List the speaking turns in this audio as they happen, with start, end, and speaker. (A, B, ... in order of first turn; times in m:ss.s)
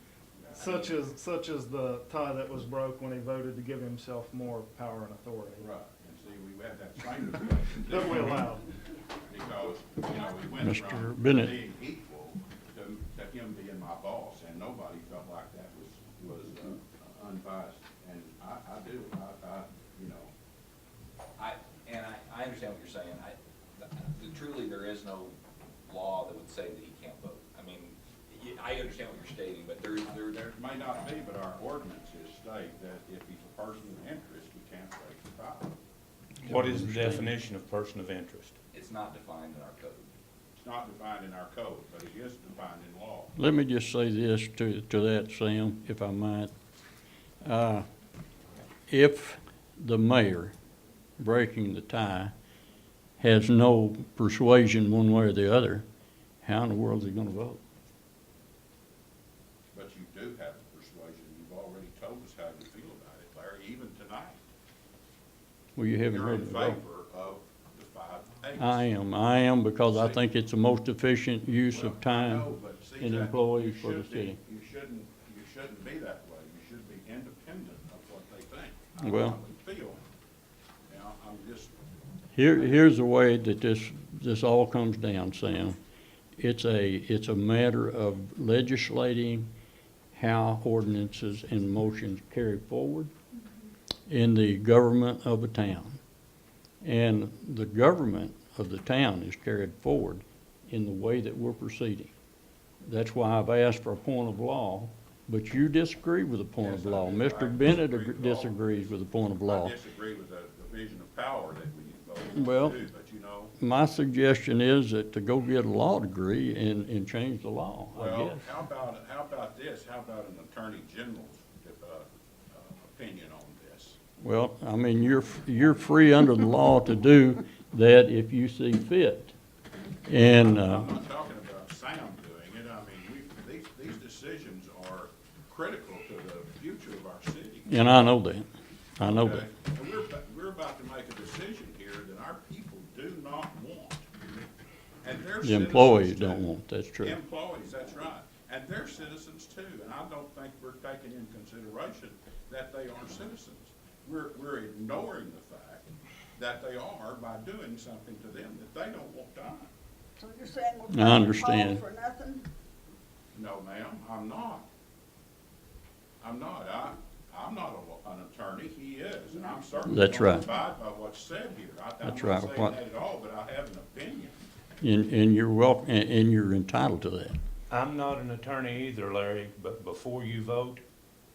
0:00.4-0:00.7 A
0:00.5-0:01.0 B
0:00.6-0:05.7 C
0:05.6-0:08.5 A
0:07.9-0:08.6 C
0:09.3-0:20.3 A
0:10.6-0:11.6 D
0:21.4-0:30.5 B
0:30.4-0:35.8 A
0:36.4-0:37.3 D
0:36.4-0:38.6 E
0:38.7-0:40.1 B
0:40.6-0:43.3 A
0:43.4-0:46.5 D
0:47.4-0:47.9 D
0:48.9-0:50.6 D
0:51.2-0:52.3 D
0:53.2-0:55.9 D
0:56.4-0:57.6 D
0:59.7-1:04.4 A
1:05.8-1:06.8 D
1:06.1-1:08.9 A
1:08.6-1:14.4 D
1:09.8-1:10.2 A
1:11.7-1:20.1 A
1:19.0-1:19.4 D
1:20.9-1:21.7 A
1:22.4-1:25.8 D
1:26.4-1:29.5 D
1:30.1-1:33.1 D
1:34.1-1:36.0 D
1:36.8-1:42.1 D
1:42.8-1:49.8 D
1:46.6-1:48.9 A
1:49.4-1:53.5 A
1:52.3-1:52.8 D
1:53.6-1:58.4 D
1:57.9-2:04.0 A
2:04.2-2:09.3 D
2:10.1-2:10.9 D
2:10.2-2:18.0 A
2:17.7-2:18.5 D
2:19.0-2:19.5 D
2:19.0-2:24.1 A
2:25.0-2:26.5 A
2:25.4-2:27.2 D
2:27.0-2:39.7 A
2:40.2-2:42.4 F
2:40.9-2:41.8 D
2:43.3-2:44.7 A
2:46.2-2:54.4 A
2:49.9-2:50.5 D
2:52.0-2:52.8 D
2:54.8-2:57.4 D
2:57.7-3:00.8 E